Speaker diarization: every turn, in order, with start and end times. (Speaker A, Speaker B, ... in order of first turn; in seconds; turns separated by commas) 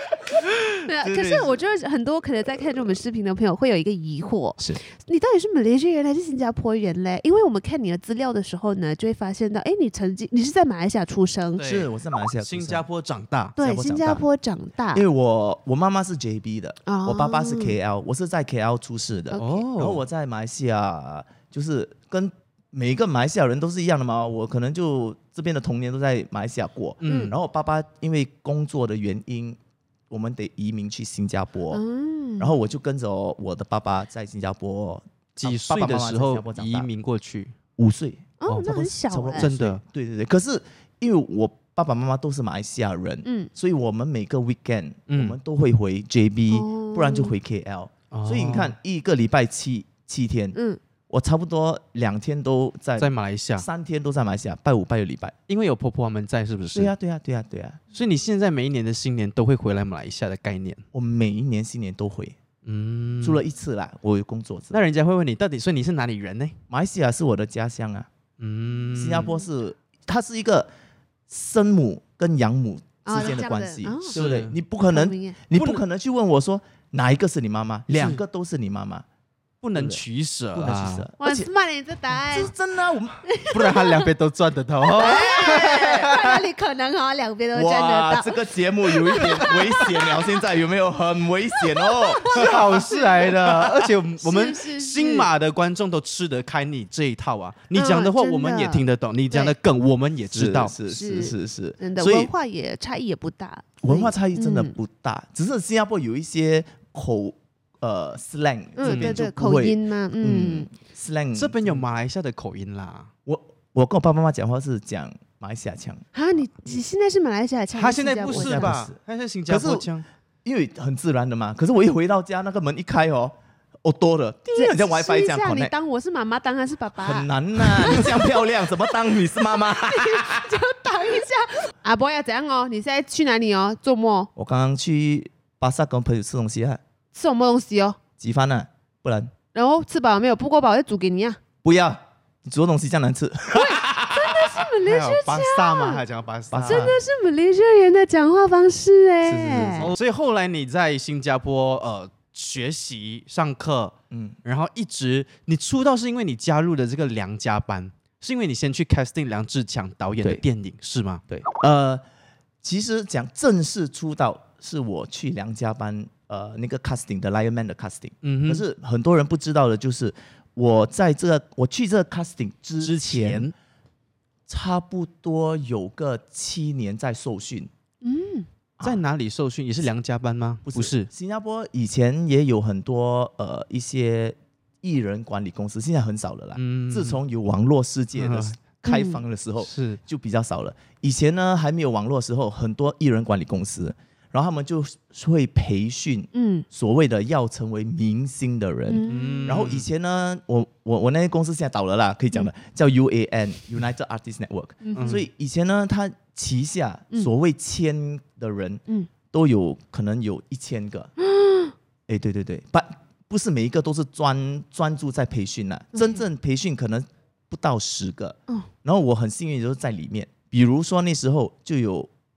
Speaker A: 0.6-1.6, Speaker B: 0.8-11.6, Speaker A: 11.6-13.6, Speaker C: 11.6-12.8, Speaker C: 13.6-14.2, Speaker B: 13.6-15.0, Speaker C: 14.9-29.6, Speaker B: 16.9-17.8, Speaker B: 19.3-19.6, Speaker A: 19.4-20.0, Speaker A: 27.0-27.3, Speaker B: 27.1-27.3, Speaker C: 30.1-31.8, Speaker B: 31.7-32.6, Speaker C: 32.4-36.9, Speaker A: 35.4-37.5, Speaker C: 37.8-50.6, Speaker B: 38.4-39.5, Speaker A: 38.5-38.7, Speaker A: 39.3-39.8, Speaker B: 43.2-43.5, Speaker A: 45.1-45.4, Speaker B: 46.5-47.4, Speaker A: 48.1-48.8, Speaker B: 50.5-50.8, Speaker C: 51.1-55.3, Speaker A: 53.0-53.6, Speaker A: 55.5-56.9, Speaker C: 56.7-57.8, Speaker A: 57.9-60.8, Speaker C: 60.9-62.4, Speaker A: 62.6-63.4, Speaker C: 63.2-64.8, Speaker A: 64.7-66.6, Speaker C: 66.7-68.1, Speaker A: 68.4-69.3, Speaker C: 68.9-70.7, Speaker C: 71.3-79.0, Speaker B: 73.0-74.2, Speaker A: 74.1-74.6, Speaker B: 74.9-75.4, Speaker A: 75.5-75.8, Speaker A: 77.9-78.2, Speaker A: 79.6-81.0, Speaker C: 79.7-80.0, Speaker C: 80.5-81.5, Speaker B: 81.2-82.5, Speaker C: 82.1-83.2, Speaker B: 83.2-84.1, Speaker A: 83.5-86.3, Speaker B: 84.9-90.4, Speaker C: 85.0-86.1, Speaker C: 87.5-93.9, Speaker B: 91.5-93.4, Speaker A: 92.3-100.7, Speaker B: 94.2-95.3, Speaker B: 97.7-99.5, Speaker C: 100.3-102.3, Speaker B: 100.9-104.8, Speaker C: 103.8-111.8, Speaker B: 108.8-110.7, Speaker A: 108.8-109.2, Speaker A: 111.3-113.1, Speaker C: 113.2-116.0, Speaker B: 116.1-118.7, Speaker A: 117.7-120.0, Speaker C: 118.3-119.9, Speaker C: 120.4-125.7, Speaker B: 124.5-128.4, Speaker C: 127.0-130.5, Speaker B: 129.6-134.3, Speaker C: 134.3-136.8, Speaker B: 137.1-138.0, Speaker C: 138.2-139.3, Speaker B: 139.5-141.4, Speaker C: 141.6-144.6, Speaker B: 143.5-146.0, Speaker A: 144.8-146.9, Speaker C: 146.5-146.9, Speaker B: 146.6-149.9, Speaker A: 149.2-161.2, Speaker C: 154.1-154.4, Speaker C: 161.3-162.0, Speaker C: 162.6-173.5, Speaker A: 168.2-168.6, Speaker A: 172.8-173.5, Speaker C: 174.5-177.7, Speaker B: 178.0-178.5, Speaker C: 178.8-179.0, Speaker A: 178.8-181.1, Speaker C: 180.7-211.1, Speaker A: 186.6-187.2, Speaker A: 188.2-188.5, Speaker B: 188.8-189.2, Speaker A: 189.6-190.0, Speaker B: 196.3-196.7, Speaker B: 198.9-199.6, Speaker A: 199.0-199.9, Speaker B: 204.8-205.2, Speaker A: 204.9-205.2, Speaker B: 211.2-211.7, Speaker C: 212.1-222.1